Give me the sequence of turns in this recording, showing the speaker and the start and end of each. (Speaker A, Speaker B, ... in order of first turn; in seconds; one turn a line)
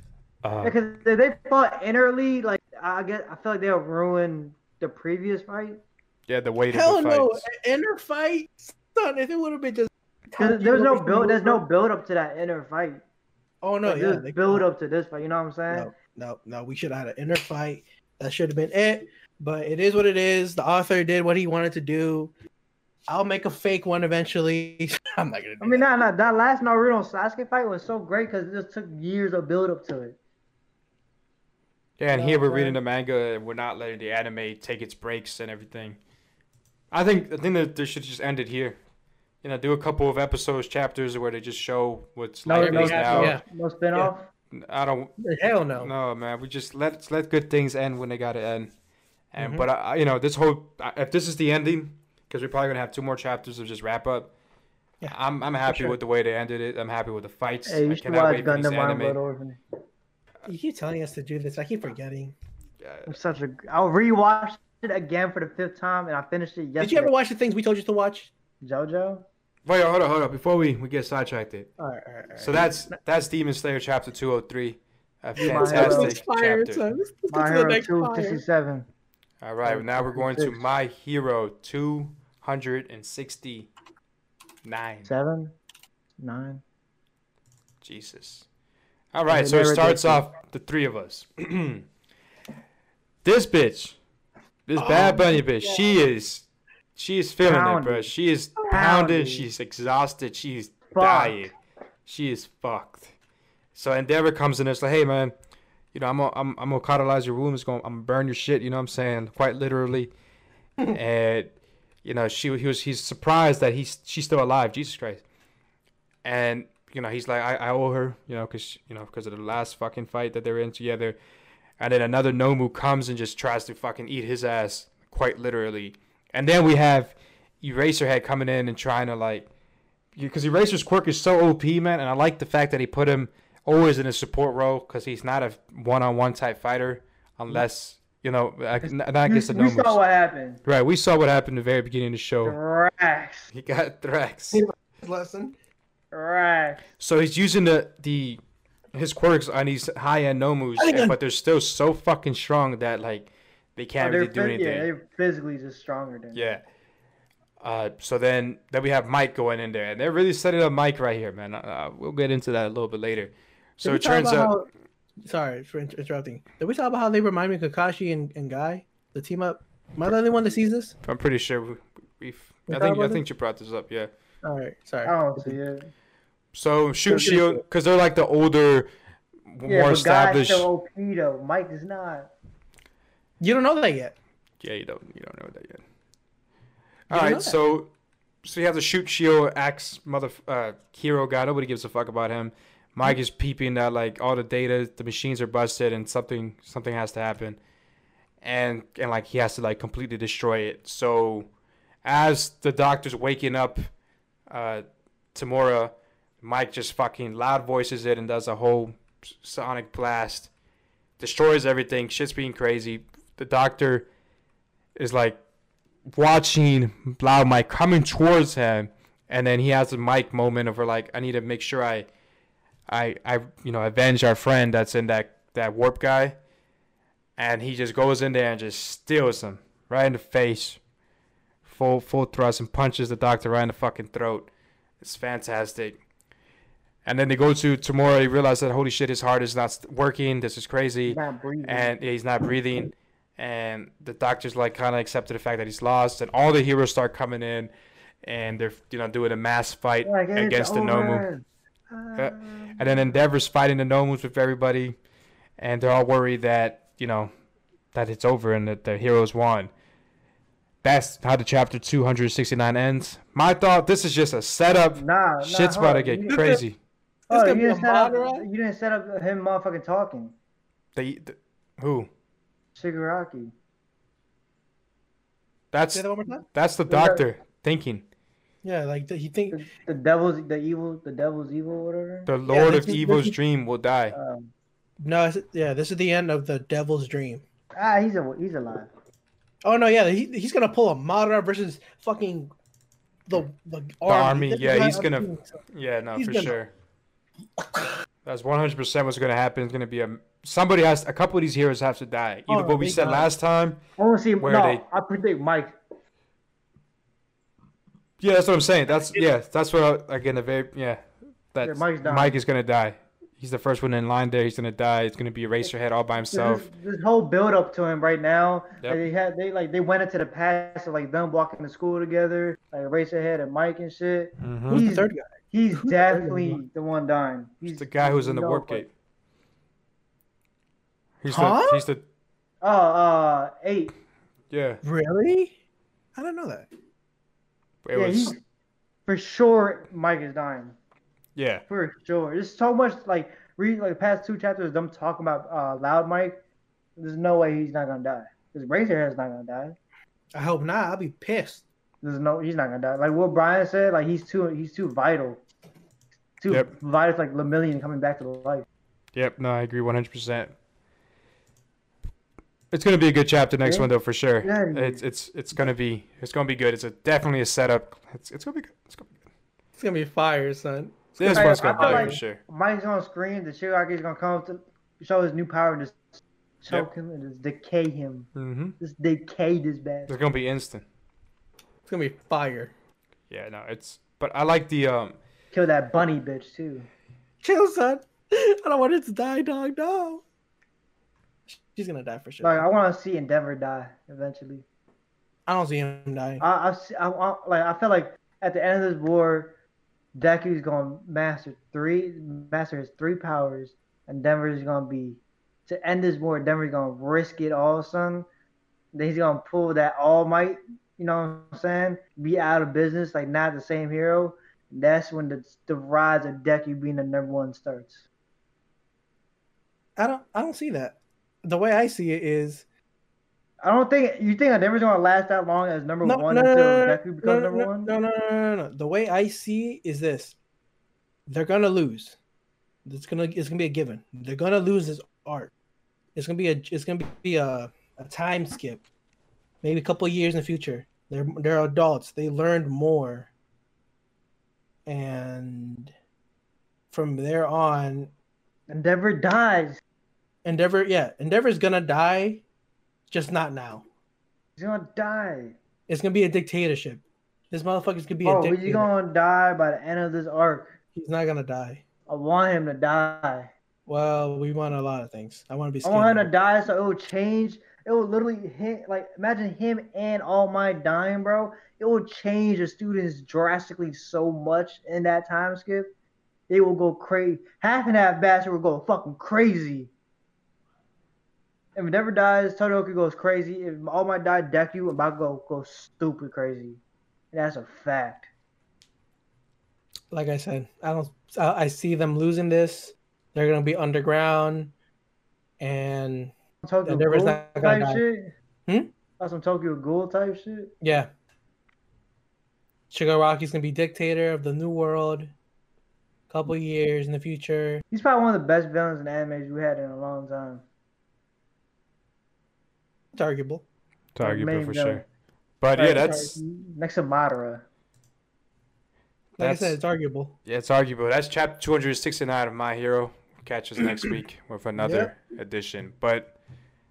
Speaker A: 0.4-0.8
Speaker B: 0.6-5.8
Speaker A: 6.3-7.5
Speaker C: 6.7-11.6
Speaker B: 10.4-13.0
Speaker C: 13.6-14.6
Speaker B: 13.8-15.9
Speaker C: 15.7-22.3
Speaker C: 23.1-25.9
Speaker B: 25.6-30.2
Speaker A: 32.0-36.0
Speaker B: 32.1-32.8
Speaker A: 36.9-38.8
Speaker A: 39.4-43.4
Speaker B: 42.5-44.3
Speaker C: 42.5-43.4
Speaker A: 44.5-45.2
Speaker C: 45.2-45.9
Speaker A: 45.8-48.7
Speaker A: 49.3-54.3
Speaker C: 49.4-49.6
Speaker C: 55.0-56.0
Speaker A: 55.1-59.2
Speaker B: 57.6-59.6
Speaker C: 60.4-62.3
Speaker A: 62.8-63.1
Speaker B: 63.1-67.1
Speaker C: 66.8-68.3
Speaker B: 68.6-69.3
Speaker A: 69.6-71.7
Speaker C: 71.8-72.7
Speaker A: 72.4-76.8
Speaker B: 75.4-76.2
Speaker C: 75.4-78.4
Speaker B: 77.3-78.9
Speaker A: 79.4-83.7
Speaker B: 79.7-80.6
Speaker A: 84.6-85.1
Speaker B: 85.0-85.5
Speaker B: 86.2-86.6
Speaker A: 87.8-88.5
Speaker A: 89.1-91.9
Speaker B: 89.3-90.2
Speaker A: 93.2-94.0
Speaker A: 94.7-101.5
Speaker C: 94.8-96.0
Speaker B: 97.4-98.1
Speaker B: 98.7-99.5
Speaker B: 100.9-101.5
Speaker A: 102.0-103.1
Speaker A: 103.7-105.3
Speaker A: 105.9-110.1
Speaker A: 110.9-111.5
Speaker A: 112.0-115.2
Speaker A: 116.2-121.2
Speaker A: 121.8-129.5
Speaker A: 130.2-140.0
Speaker B: 138.8-140.6
Speaker A: 140.6-142.6
Speaker B: 142.4-143.5
Speaker A: 143.5-144.6
Speaker C: 145.0-145.6
Speaker B: 146.1-146.8
Speaker A: 147.0-148.4
Speaker A: 148.9-154.9
Speaker C: 150.8-151.1
Speaker B: 154.0-156.5
Speaker A: 156.3-156.6
Speaker A: 157.6-164.6
Speaker C: 163.8-164.7
Speaker C: 165.2-170.9
Speaker A: 171.0-174.1
Speaker C: 172.7-173.2
Speaker C: 174.4-175.6
Speaker B: 175.0-175.9
Speaker A: 176.5-178.9
Speaker B: 177.1-177.4
Speaker C: 177.1-177.6
Speaker A: 179.5-180.7
Speaker B: 179.7-182.3
Speaker C: 183.4-184.1
Speaker A: 184.6-185.8
Speaker A: 187.1-187.9
Speaker C: 187.1-187.6
Speaker A: 188.4-197.6
Speaker A: 198.4-201.5
Speaker A: 202.0-203.9
Speaker A: 204.5-204.8
Speaker A: 205.3-210.5
Speaker A: 211.2-214.1
Speaker A: 214.9-215.4
Speaker A: 216.1-222.1
Speaker A: 222.9-226.4
Speaker A: 227.4-230.8
Speaker A: 231.6-234.5
Speaker A: 235.0-236.0
Speaker A: 237.0-247.7
Speaker B: 241.1-241.9
Speaker A: 248.2-251.3
Speaker B: 250.0-253.2
Speaker A: 252.1-254.9
Speaker A: 255.6-257.3
Speaker A: 257.9-259.7
Speaker A: 260.8-266.8
Speaker B: 264.9-266.5
Speaker C: 266.3-266.6
Speaker C: 267.3-268.4
Speaker B: 267.3-270.3
Speaker A: 270.9-272.1
Speaker B: 272.7-273.5
Speaker A: 275.7-278.0
Speaker C: 275.9-276.4
Speaker B: 276.9-277.2
Speaker C: 278.6-279.6
Speaker B: 279.5-282.9
Speaker A: 282.3-284.1
Speaker C: 282.5-283.3
Speaker B: 284.1-284.5
Speaker C: 285.0-287.4
Speaker B: 287.7-288.9
Speaker C: 289.6-292.5
Speaker C: 293.3-295.6
Speaker A: 294.1-296.7
Speaker C: 296.1-296.6
Speaker A: 298.2-303.8
Speaker C: 302.5-303.3
Speaker B: 304.0-305.7
Speaker A: 304.4-304.8
Speaker A: 308.2-311.0
Speaker A: 311.5-316.6
Speaker B: 311.6-312.4
Speaker B: 316.3-328.8
Speaker A: 324.4-324.9
Speaker C: 324.7-326.6
Speaker A: 327.7-328.9
Speaker A: 331.2-332.0
Speaker C: 331.3-331.9
Speaker B: 332.6-333.9
Speaker A: 334.5-334.8
Speaker C: 334.8-335.6
Speaker C: 336.1-336.7
Speaker A: 337.8-338.4
Speaker B: 337.9-338.4
Speaker B: 339.1-340.8
Speaker A: 341.4-341.6
Speaker B: 341.7-346.4
Speaker B: 347.0-349.8
Speaker C: 350.3-351.6
Speaker B: 352.0-355.4
Speaker B: 356.4-358.6
Speaker A: 359.1-360.5
Speaker A: 362.7-369.2
Speaker B: 363.6-363.9
Speaker B: 364.4-365.0
Speaker C: 369.8-372.2
Speaker A: 371.2-372.4
Speaker B: 371.3-376.0
Speaker B: 376.6-378.3
Speaker A: 378.4-378.8
Speaker B: 378.8-380.1
Speaker A: 380.1-380.8
Speaker C: 381.9-382.7
Speaker A: 383.3-385.2
Speaker B: 385.5-386.9
Speaker C: 387.4-390.2
Speaker C: 391.5-392.6
Speaker B: 392.4-394.6
Speaker C: 395.5-396.4
Speaker B: 396.4-399.6
Speaker B: 400.1-408.3
Speaker B: 408.9-418.0
Speaker C: 420.0-422.6
Speaker B: 423.6-427.9
Speaker C: 426.0-430.4
Speaker C: 431.3-432.2
Speaker C: 432.8-435.5
Speaker C: 436.1-438.8
Speaker C: 439.6-443.3
Speaker C: 444.9-445.9
Speaker C: 446.9-448.1
Speaker B: 448.7-449.8
Speaker C: 450.4-452.4
Speaker C: 453.1-453.8
Speaker B: 454.6-455.6
Speaker C: 455.9-458.9
Speaker B: 458.2-460.8
Speaker C: 460.9-461.8
Speaker B: 462.1-463.5
Speaker C: 463.9-466.3
Speaker B: 465.8-475.9
Speaker B: 476.5-479.9
Speaker B: 481.7-486.8
Speaker B: 487.3-488.3
Speaker C: 490.1-494.7
Speaker C: 495.6-496.3
Speaker B: 496.6-498.3
Speaker C: 496.8-498.0
Speaker C: 498.7-498.9
Speaker B: 499.2-500.7
Speaker C: 500.8-501.1
Speaker C: 502.9-505.3
Speaker C: 506.3-507.8
Speaker B: 507.9-510.6
Speaker C: 513.1-513.6
Speaker A: 514.1-515.0
Speaker B: 514.2-515.0
Speaker A: 515.6-516.4
Speaker B: 515.8-517.6
Speaker A: 519.4-519.8
Speaker C: 519.4-520.3
Speaker A: 520.5-526.3
Speaker C: 524.8-525.1